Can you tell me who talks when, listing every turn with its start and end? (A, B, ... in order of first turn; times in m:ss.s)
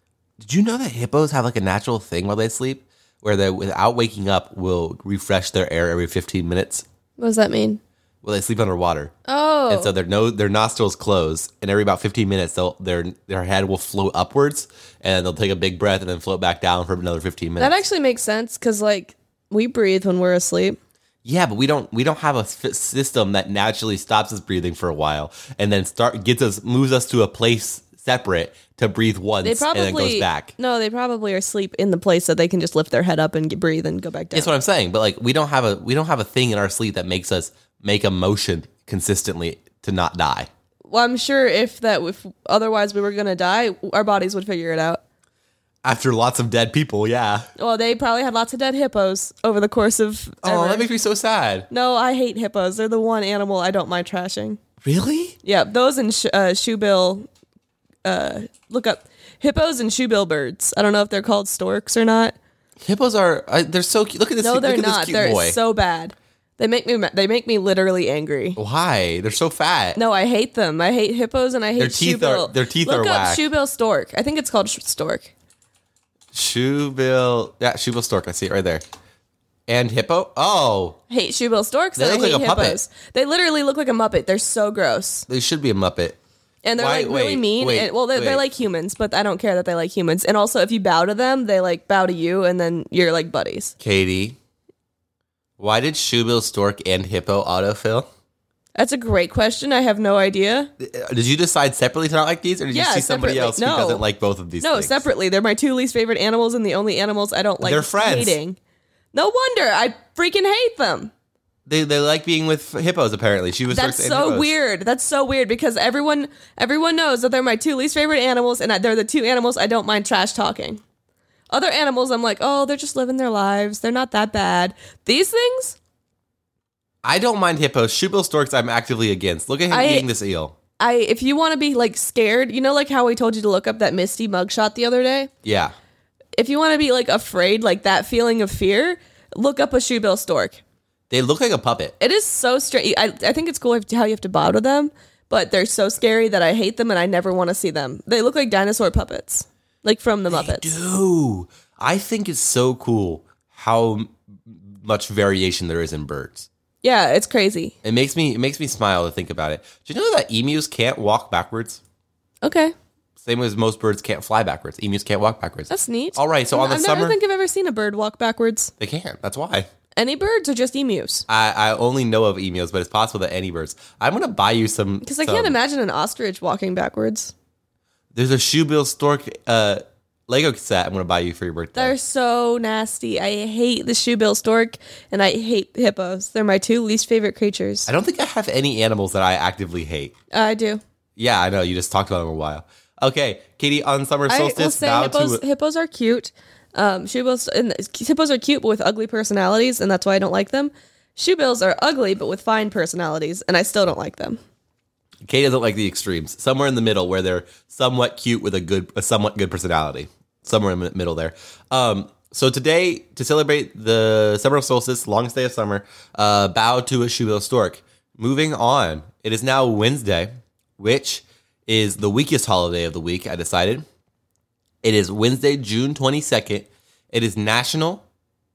0:00.4-0:06.8 A
0:07.2-0:07.8 B
0:08.2-0:09.1 A
0:09.2-0:09.9 B
0:09.7-0:17.8 A
0:17.6-0:20.8 B
0:21.2-0:30.5 A
0:29.4-0:34.5 B
0:34.3-0:40.5 A
0:40.9-0:45.0 B
0:45.8-0:47.5 A
0:47.6-0:50.9 B
0:50.4-0:51.7 A
0:51.7-0:54.6 B
0:54.8-0:55.4 A
0:55.4-0:57.3 B
0:58.0-1:02.4 B
1:02.8-1:05.6 A
1:04.4-1:08.6 B
1:08.6-1:10.0 A
1:09.9-1:15.3 B
1:11.8-1:13.4 A
1:16.3-1:18.8 A
1:19.7-1:21.0 A
1:21.1-1:25.2 B
1:22.0-1:22.8 A
1:25.3-1:26.2 A
1:26.6-1:33.7 B
1:26.8-1:28.4 A
1:33.8-1:34.4 A
1:35.6-1:38.1 A
1:38.8-1:40.7 B
1:40.8-1:45.0 A
1:42.7-1:44.0 B
1:44.6-1:48.6 B
1:47.6-1:48.4 A
1:49.1-1:51.1 B
1:51.7-1:54.5 A
1:53.7-2:00.8 B
2:01.5-2:05.8 B
2:07.0-2:10.5 A
2:09.7-2:10.1 B
2:10.8-2:15.3 B
2:15.4-2:15.7 A
2:16.4-2:20.6 B
2:21.1-2:21.9 A
2:22.0-2:30.7 B
2:30.3-2:36.5 A
2:36.8-2:37.7 B
2:37.8-2:41.8 A
2:42.4-2:42.7 B
2:43.2-2:47.2 A
2:45.7-2:48.7 B
2:48.8-2:49.7 A
2:50.0-2:51.2 B
2:51.3-2:55.6 A
2:55.0-2:57.3 B
2:58.1-3:01.9 A
3:01.7-3:07.9 B
3:07.9-3:10.1 A
3:10.3-3:10.8 B
3:11.2-3:15.4 A
3:14.3-3:24.4 B
3:25.2-3:43.8 A
3:44.8-3:48.0 A